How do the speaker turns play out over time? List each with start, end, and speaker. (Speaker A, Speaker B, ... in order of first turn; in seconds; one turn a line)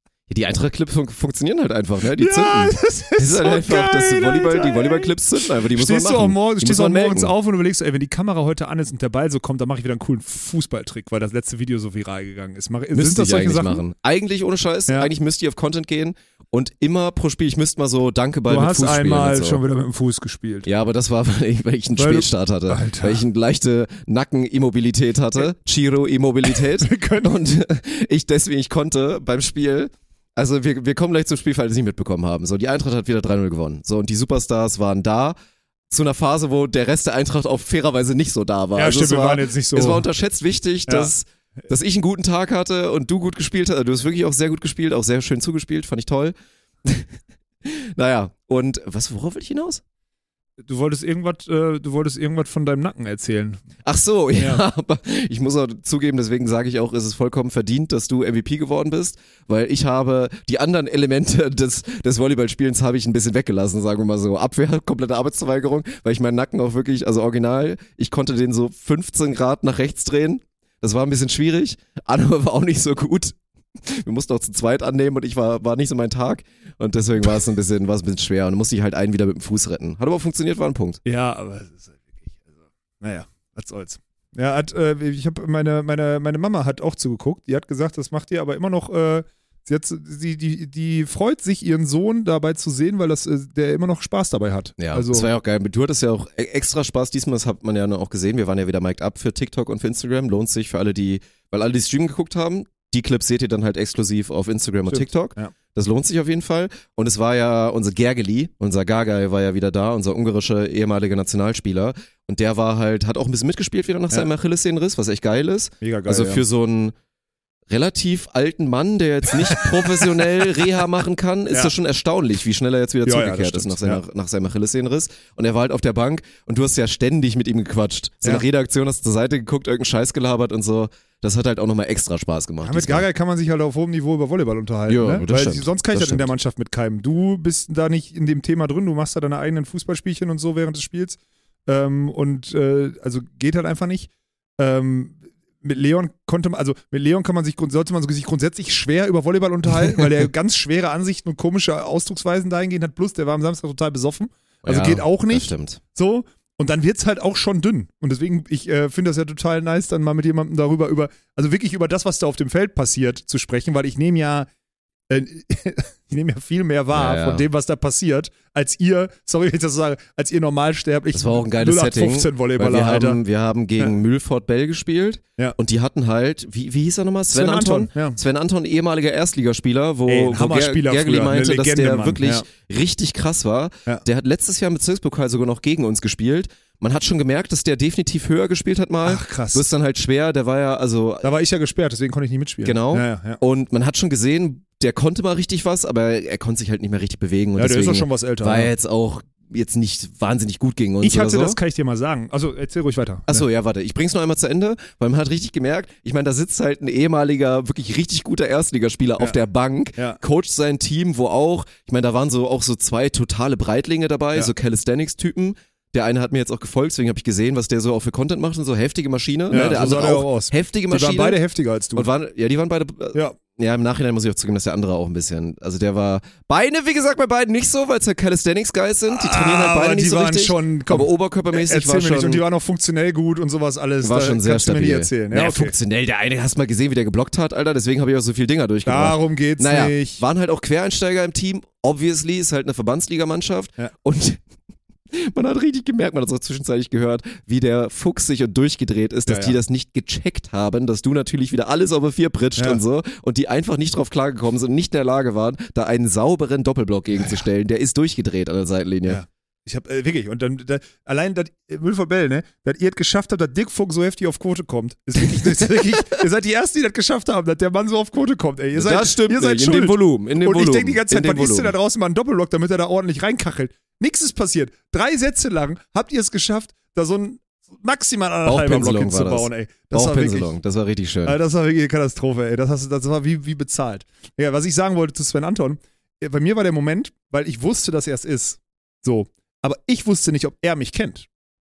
Speaker A: 0.3-7.3
Speaker B: 2.2-13.8
Speaker A: 12.9-19.6
Speaker B: 18.5-20.7
Speaker A: 20.6-35.4
Speaker B: 22.0-23.2
Speaker B: 26.4-27.5
Speaker A: 35.9-49.8
Speaker B: 38.8-40.0
Speaker B: 50.6-53.6
Speaker A: 53.8-81.0
Speaker B: 54.4-54.6
Speaker B: 81.0-82.4
Speaker B: 83.0-95.3
Speaker A: 94.8-117.0
Speaker B: 104.9-105.5
Speaker B: 115.8-116.4
Speaker A: 117.7-133.1
Speaker B: 119.3-120.2
Speaker B: 123.0-124.0
Speaker B: 132.6-164.5
Speaker A: 134.9-136.3
Speaker A: 154.6-155.8
Speaker B: 165.1-173.2
Speaker A: 166.9-167.5
Speaker A: 171.1-191.3
Speaker B: 177.3-178.2
Speaker B: 180.1-182.5
Speaker B: 189.0-189.6
Speaker B: 191.2-193.4
Speaker A: 192.6-201.6
Speaker B: 197.6-198.7
Speaker B: 201.0-203.4
Speaker A: 203.3-221.4
Speaker B: 219.5-222.1
Speaker A: 221.9-232.4
Speaker B: 229.1-235.8
Speaker A: 234.0-244.4
Speaker B: 238.8-240.2
Speaker A: 245.1-259.2
Speaker B: 249.3-249.6
Speaker B: 257.2-257.4
Speaker B: 259.1-280.5
Speaker A: 265.2-266.2
Speaker A: 268.8-271.7
Speaker A: 278.4-281.4
Speaker B: 281.2-291.3